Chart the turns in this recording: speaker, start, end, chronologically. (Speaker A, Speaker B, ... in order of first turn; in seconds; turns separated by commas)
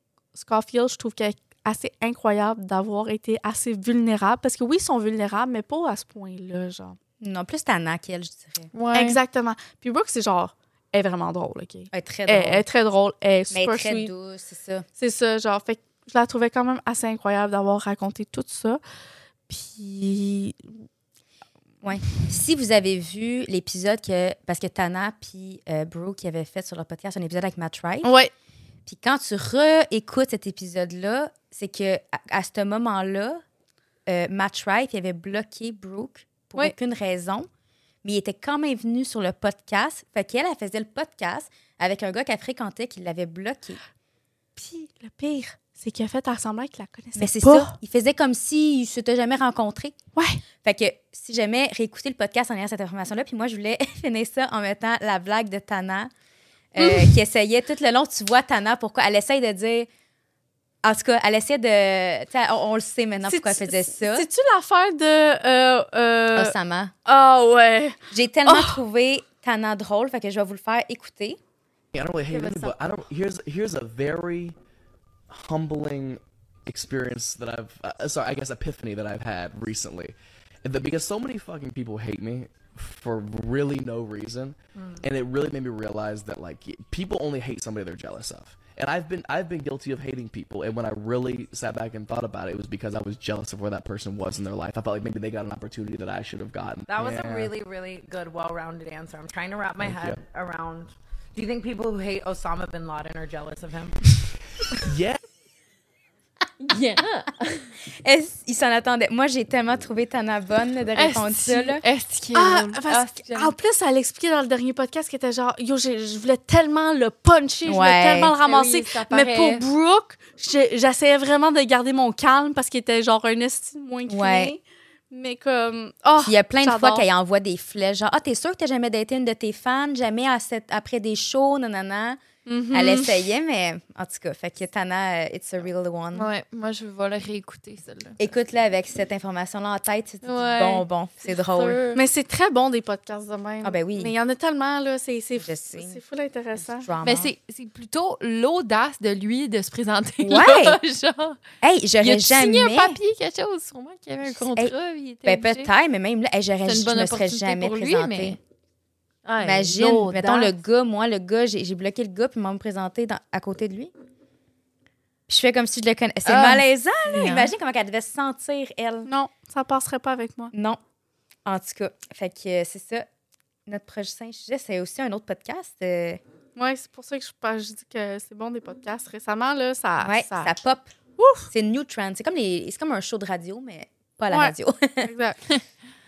Speaker A: 0.3-7.0, Speaker B: 7.2-8.7, Speaker C: 8.7-9.2, Speaker A: 8.9-14.1, Speaker B: 11.9-12.6, Speaker B: 13.5-14.9, Speaker A: 15.0-18.8, Speaker A: 19.5-20.6, Speaker B: 21.8-28.1, Speaker A: 28.0-28.3, Speaker B: 28.9-33.4, Speaker B: 34.1-37.5, Speaker B: 38.0-43.8, Speaker A: 44.6-47.8, Speaker B: 47.2-50.0, Speaker B: 50.6-56.1, Speaker B: 56.7-59.9, Speaker A: 56.8-57.1, Speaker B: 60.8-64.3, Speaker A: 63.2-66.5, Speaker B: 66.3-66.9, Speaker A: 67.1-68.8, Speaker B: 68.1-71.4, Speaker D: 71.9-74.5, Speaker D: 75.3-97.5, Speaker E: 96.9-104.0, Speaker D: 99.8-100.2, Speaker D: 104.8-105.2, Speaker C: 106.7-107.7, Speaker B: 107.9-111.8, Speaker C: 111.0-113.5, Speaker A: 112.3-127.0, Speaker B: 117.7-118.3, Speaker C: 118.4-119.6, Speaker B: 124.1-124.5, Speaker B: 126.2-132.2, Speaker A: 132.5-133.2, Speaker B: 132.7-136.3, Speaker C: 136.1-138.2, Speaker B: 138.2-141.8, Speaker C: 140.2-142.0, Speaker A: 141.9-146.9, Speaker B: 143.6-144.1, Speaker B: 145.4-146.0, Speaker B: 146.8-147.3, Speaker C: 147.0-151.4, Speaker B: 150.2-150.8, Speaker B: 151.6-153.0, Speaker C: 152.0-155.7, Speaker B: 154.3-158.4, Speaker C: 156.6-158.4, Speaker C: 159.3-160.5, Speaker B: 159.4-163.9, Speaker B: 165.3-169.1, Speaker C: 166.2-167.5, Speaker A: 169.1-170.5, Speaker B: 170.5-170.8, Speaker B: 171.5-173.1, Speaker B: 173.7-176.2, Speaker A: 176.6-180.5, Speaker B: 180.0-180.9, Speaker A: 181.2-181.5, Speaker B: 181.5-185.1, Speaker A: 184.3-185.4